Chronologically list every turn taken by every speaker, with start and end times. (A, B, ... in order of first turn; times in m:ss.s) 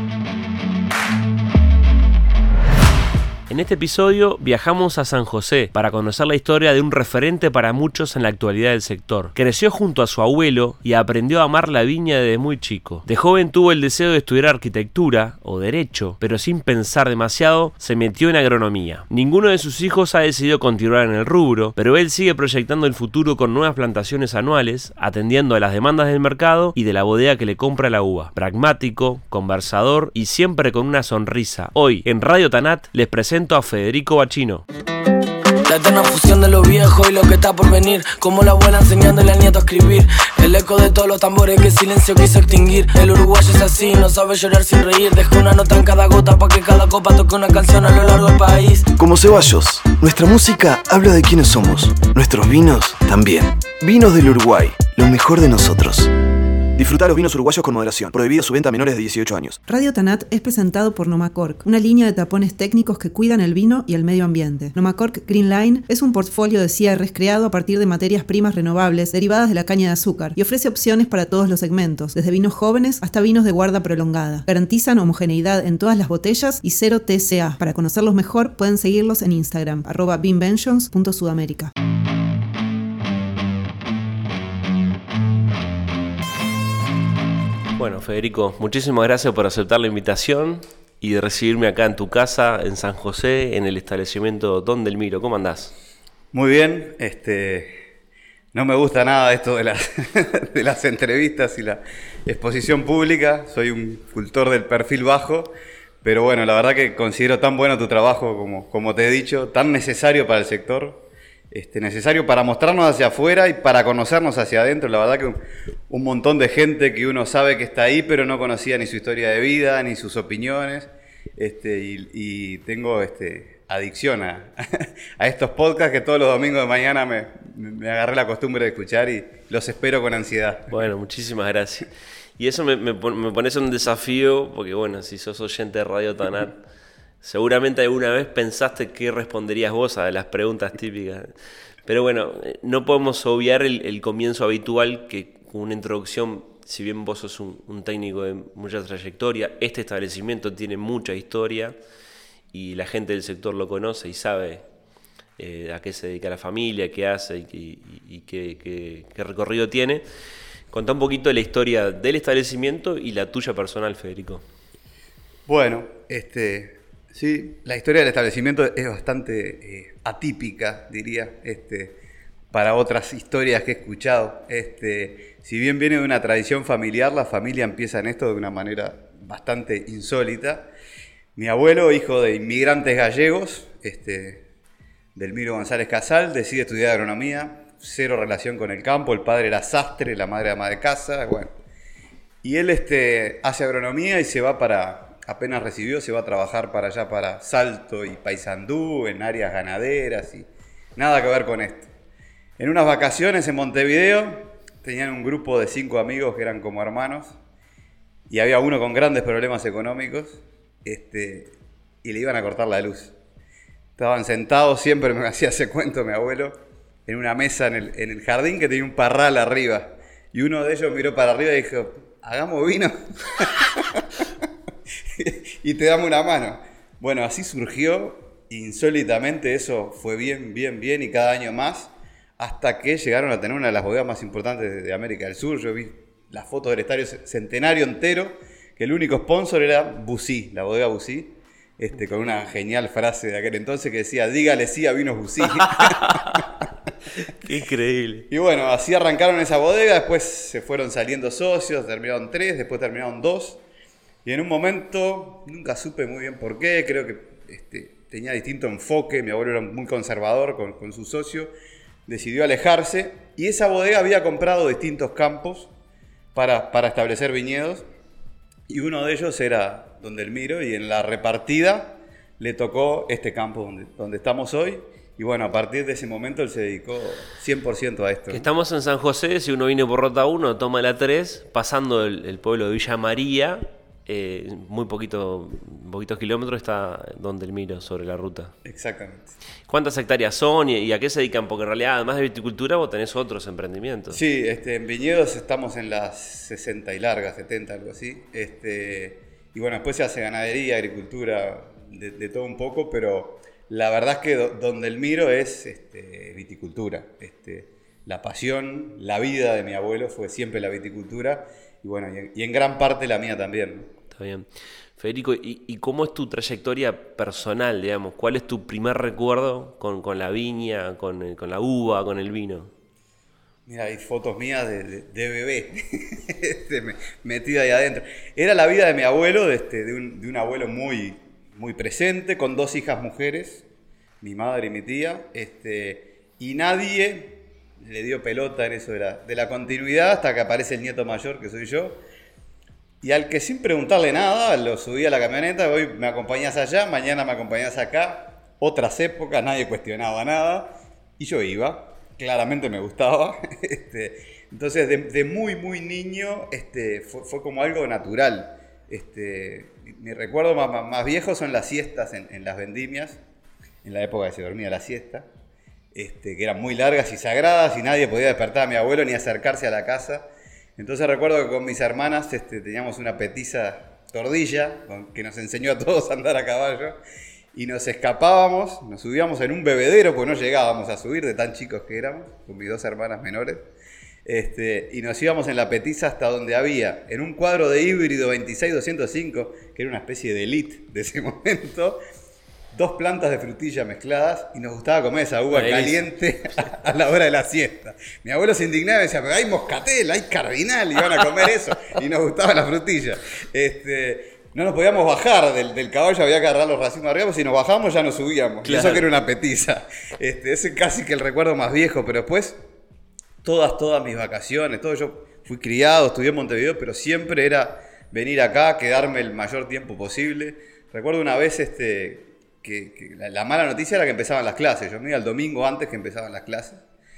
0:03.5-0:34.6 A
0:35.6-0:48.9 B
0:49.0-0:56.1 C
0:56.7-0:59.6 C
0:59.7-1:21.7 D
1:27.8-1:35.7 A
1:36.3-1:37.8 E
1:38.5-1:55.4 E
1:55.9-2:10.7 E
2:10.7-2:16.6 A
2:17.2-2:21.3 A
2:21.8-2:31.8 A
2:32.5-2:34.6 A
2:35.4-2:40.0 A
2:40.7-2:44.4 A
2:45.5-2:52.0 E
2:52.5-3:00.7 E
3:01.3-3:04.4 E
3:05.1-3:11.5 E
3:12.4-3:21.9 E
3:22.6-3:27.4 E
3:28.3-3:33.1 E
3:34.0-3:44.1 E
3:45.2-4:06.2 E
4:05.6-4:06.4 A
4:07.2-4:08.3 A
4:08.3-4:13.6 E
4:14.2-4:21.5 E
4:22.1-4:25.7 E
4:26.3-4:27.8 E
4:28.7-4:38.4 E
4:38.3-4:48.5 A
4:48.6-4:49.3 E
4:49.6-4:54.2 A
4:54.1-5:13.9 E
5:14.1-5:22.7 A
5:23.7-5:33.6 E
5:34.2-5:42.0 E
5:43.0-6:03.2 E
6:03.8-6:05.3 E
6:05.9-6:17.0 E
6:17.5-6:23.6 E
6:24.2-6:32.0 E
6:32.7-6:52.6 E
6:35.5-6:36.1 A
6:48.6-6:49.1 A
6:53.4-7:06.8 E